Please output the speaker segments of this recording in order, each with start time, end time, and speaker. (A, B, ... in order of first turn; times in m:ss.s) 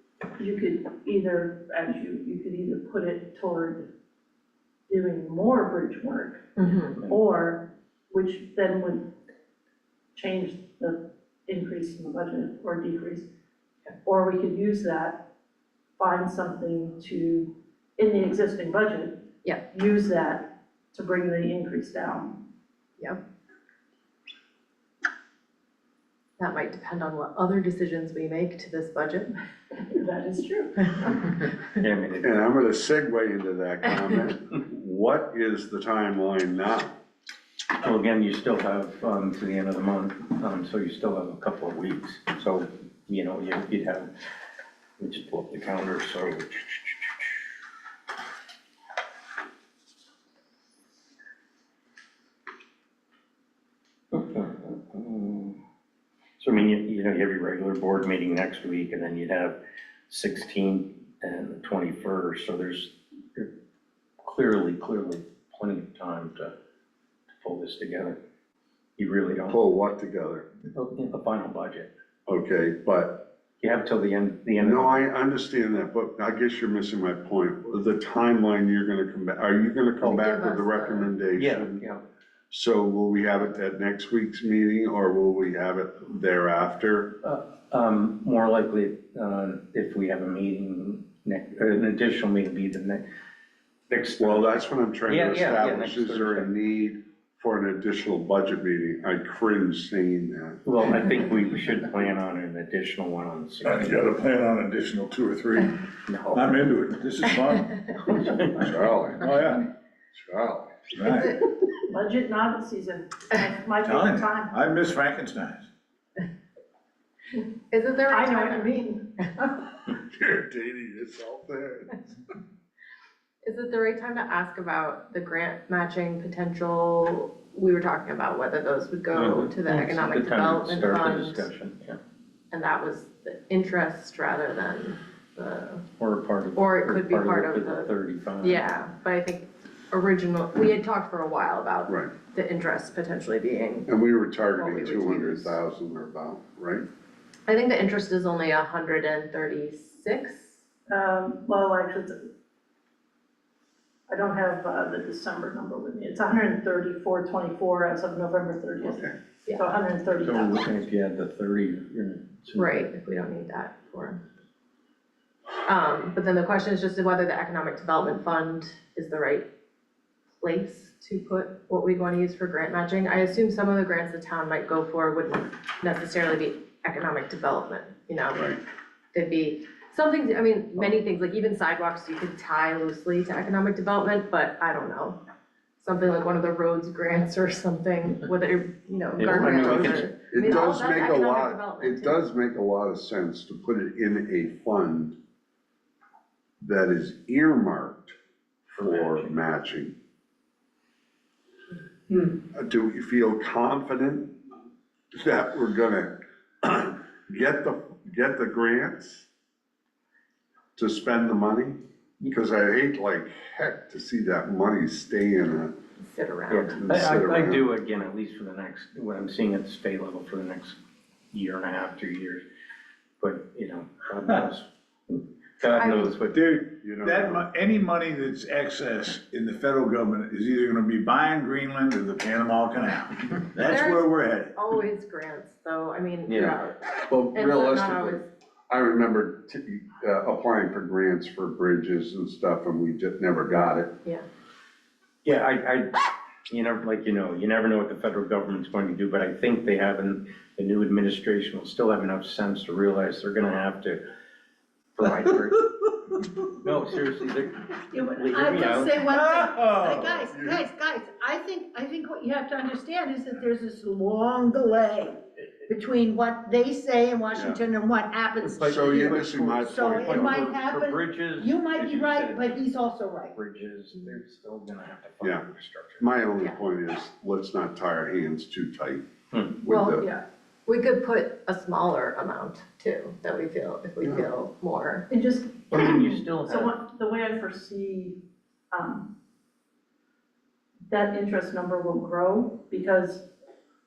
0:00.4-0:03.9 A
0:04.9-0:09.1 A
0:06.6-0:07.0 B
0:10.1-0:13.3 A
0:14.0-0:15.3 A
0:16.0-0:22.4 A
0:26.4-0:29.3 B
0:29.7-0:31.3 A
0:31.8-0:32.3 C
0:32.2-0:37.0 D
0:37.8-0:44.1 C
0:45.0-0:47.3 C
0:54.1-0:55.6 C
0:56.4-1:03.5 C
1:04.2-1:06.5 C
1:07.3-1:08.2 C
1:09.0-1:09.6 C
1:09.5-1:10.5 D
1:10.7-1:11.9 C
1:12.3-1:13.2 D
1:13.6-1:15.0 C
1:14.6-1:21.8 D
1:20.0-1:21.2 B
1:21.3-1:22.0 C
1:22.5-1:27.1 D
1:27.2-1:33.0 C
1:33.9-1:36.5 C
1:34.2-1:40.6 D
1:40.6-1:43.9 C
1:43.6-1:45.7 E
1:46.1-1:46.4 C
1:46.3-1:49.6 E
1:48.1-1:48.5 C
1:48.6-1:49.2 D
1:50.1-1:50.8 D
1:50.9-1:51.3 E
1:51.1-1:51.5 B
1:51.8-1:54.6 A
1:53.8-1:55.7 E
1:57.7-1:58.7 B
1:58.1-1:59.6 A
2:00.1-2:01.9 D
2:03.4-2:11.5 B
2:09.1-2:12.0 C
2:12.5-2:15.8 B
2:16.0-2:18.6 C
2:16.6-2:23.9 B
2:23.9-2:26.8 D
2:24.5-2:25.6 B
2:27.5-2:30.6 B
2:30.9-2:32.2 A
2:34.1-2:40.8 A
2:38.8-2:39.1 D
2:40.2-2:42.8 C
2:42.5-2:44.2 B
2:45.6-2:49.5 B
2:50.4-2:58.5 B
2:58.3-2:58.6 D
2:59.1-3:05.2 B
3:05.8-3:12.3 B
3:09.2-3:10.0 C
3:09.8-3:15.2 D
3:16.6-3:18.1 D
3:18.7-3:19.9 D
3:18.7-3:19.3 C
3:22.5-3:24.3 D
3:25.1-3:29.3 D
3:30.8-3:35.7 D
3:36.0-3:36.8 B
3:36.5-3:40.8 C
3:36.7-3:37.7 D
3:41.3-3:42.4 C
3:43.2-3:46.4 C
3:45.7-3:46.2 B
3:46.3-3:54.5 E
3:46.8-3:47.4 D
3:53.6-3:58.3 B
3:56.2-3:56.6 C
3:57.0-4:03.9 D
4:05.2-4:14.0 C
4:14.9-4:15.6 C
4:16.6-4:19.2 C
4:17.9-4:33.3 F
4:19.1-4:20.3 E
4:20.3-4:20.6 D
4:28.4-4:32.6 C
4:28.6-4:30.4 D
4:33.3-4:36.1 C
4:36.0-4:39.0 D
4:39.3-4:39.6 C
4:39.6-4:40.0 D
4:39.7-4:45.1 B
4:45.1-4:49.1 A
4:45.7-4:46.7 C
4:50.9-4:53.3 A